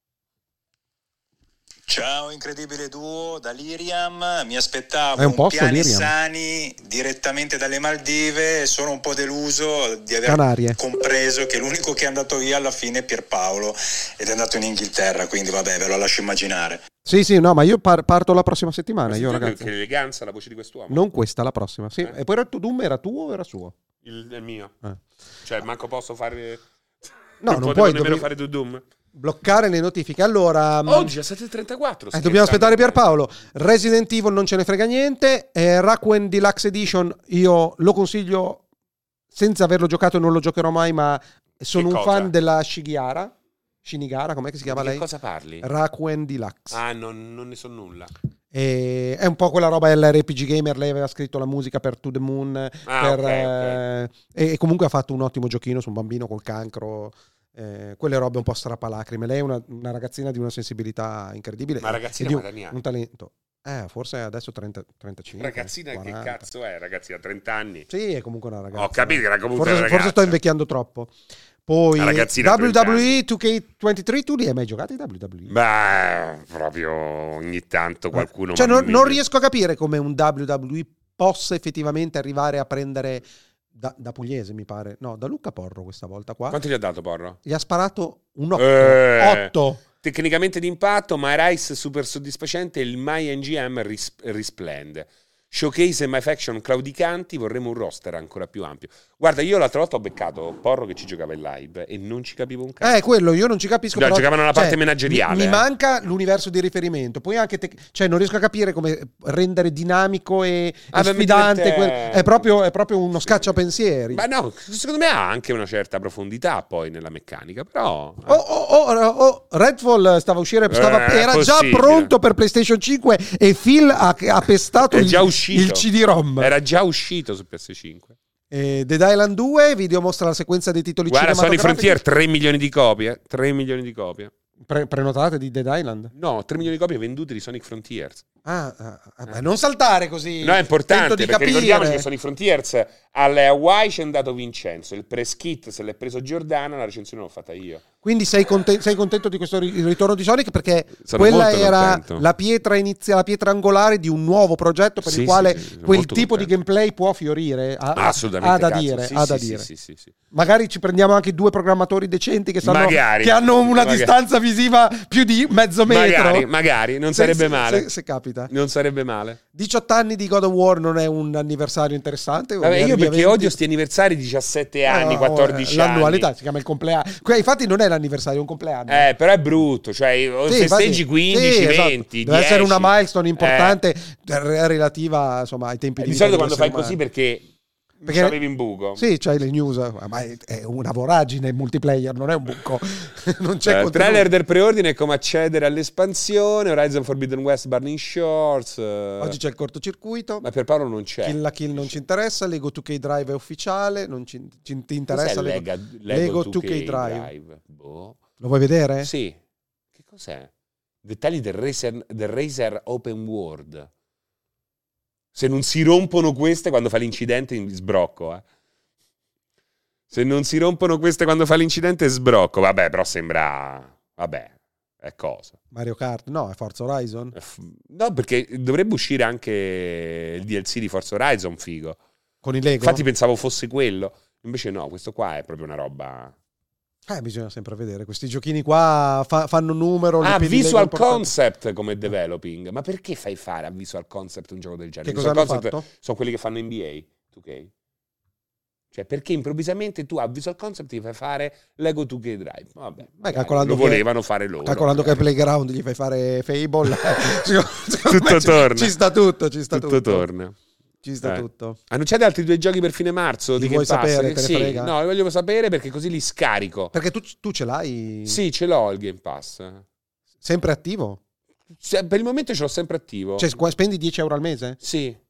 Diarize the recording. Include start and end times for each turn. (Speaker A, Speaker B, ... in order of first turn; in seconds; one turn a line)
Speaker A: 1.9-16.8
Speaker B: 5.2-6.1
Speaker B: 10.2-10.8
Speaker B: 17.0-19.7
Speaker C: 19.1-21.0
Speaker B: 20.9-23.8
Speaker C: 24.0-24.7
Speaker C: 25.4-28.8
Speaker B: 27.4-28.3
Speaker B: 29.1-31.1
Speaker C: 30.9-33.0
Speaker B: 32.1-38.6
Speaker B: 39.3-43.3
Speaker C: 41.7-42.3
Speaker B: 43.8-45.0
Speaker C: 44.7-45.7
Speaker B: 45.6-46.8
Speaker C: 46.7-48.1
Speaker B: 48.5-66.4
Speaker C: 52.9-53.8
Speaker C: 61.8-62.8
Speaker C: 65.3-67.9
Speaker B: 67.9-75.5
Speaker C: 68.7-70.4
Speaker C: 72.0-73.2
Speaker C: 75.5-79.2
Speaker B: 78.1-86.6
Speaker C: 86.5-87.4
Speaker B: 87.4-89.8
Speaker C: 88.5-103.0
Speaker B: 102.8-114.2
Speaker C: 103.9-105.6
Speaker C: 110.9-112.5
Speaker C: 114.1-118.4
Speaker B: 118.3-126.5
Speaker C: 120.7-122.1
Speaker C: 124.9-128.1
Speaker B: 128.5-132.0
Speaker C: 131.1-134.3
Speaker B: 134.6-136.1
Speaker C: 136.1-138.2
Speaker B: 138.4-142.1
Speaker C: 140.4-147.8
Speaker B: 148.0-159.7
Speaker C: 151.0-152.2
Speaker C: 155.0-156.5
Speaker C: 157.9-160.1
Speaker B: 160.3-166.5
Speaker C: 162.6-164.1
Speaker C: 165.8-167.9
Speaker B: 167.1-168.5
Speaker C: 168.5-169.4
Speaker B: 169.5-173.5
Speaker C: 172.6-176.3
Speaker B: 174.8-179.1
Speaker C: 178.9-183.8
Speaker B: 180.5-187.0
Speaker C: 186.0-187.5
Speaker C: 188.0-189.0
Speaker B: 188.1-188.4
Speaker B: 188.9-194.3
Speaker C: 193.7-199.4
Speaker B: 199.2-200.4
Speaker C: 200.4-202.0
Speaker B: 201.2-207.3
Speaker C: 205.1-208.2
Speaker B: 208.4-209.1
Speaker C: 209.0-209.4
Speaker C: 209.9-210.5
Speaker C: 211.0-213.9
Speaker C: 215.3-218.4
Speaker C: 220.1-225.6
Speaker B: 225.7-227.3
Speaker C: 227.3-232.0
Speaker B: 232.4-233.0
Speaker C: 232.8-236.3
Speaker B: 237.1-241.3
Speaker C: 240.2-247.7
Speaker B: 245.0-245.8
Speaker C: 248.9-255.2
Speaker B: 253.2-254.1
Speaker B: 254.6-260.3
Speaker C: 257.1-257.4
Speaker C: 258.0-258.9
Speaker C: 259.7-260.6
Speaker B: 261.0-261.8
Speaker C: 261.2-266.9
Speaker B: 263.6-264.9
Speaker B: 266.9-268.4
Speaker C: 268.2-269.8
Speaker B: 270.4-271.2
Speaker C: 271.7-273.5
Speaker B: 273.4-274.8
Speaker C: 274.8-275.2